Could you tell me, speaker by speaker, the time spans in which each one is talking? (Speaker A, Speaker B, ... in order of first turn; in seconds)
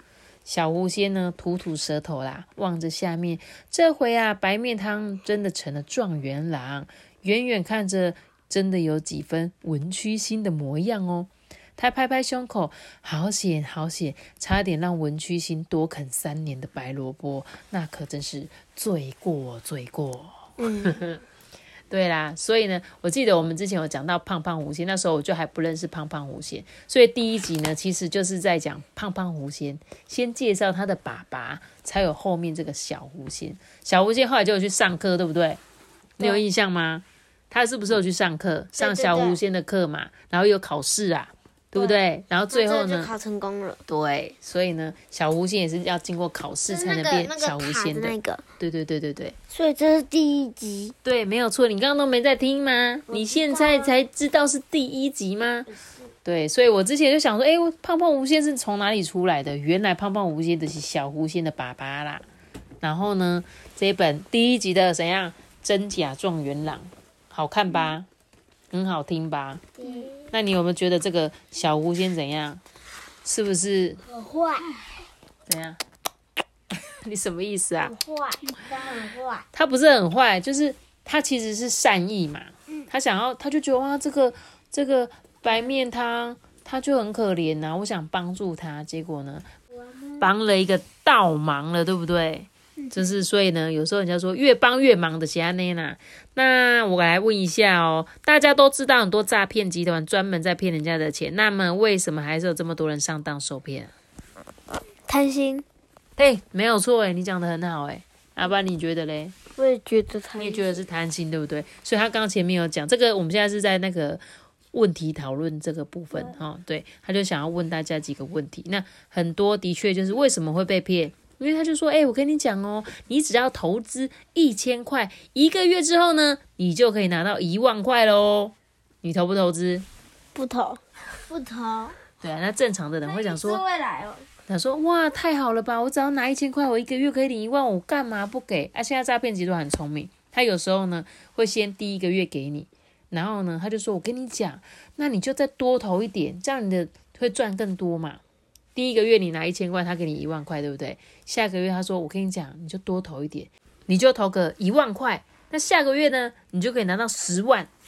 Speaker A: 0.5-21.2, 21.9-35.6, 36.2-43.1, 43.9-49.4, 51.0-55.7, 56.2-62.2, 62.8-68.1, 68.7-72.6, 73.2-74.0, 75.5-75.8, 76.9-78.0, 79.5-89.5, 90.2-103.9, 106.2-109.4, 110.4-114.2, 114.7-129.8, 132.2-133.6, 134.5-148.2, 148.8-157.7
Speaker B: 20.6-21.0, 38.8-39.4, 42.5-43.8, 46.7-48.4, 49.5-51.0, 53.1-53.9, 69.8-70.2, 74.1-74.9, 77.8-79.5, 105.0-105.7, 109.6-110.7, 130.3-132.0, 133.0-134.3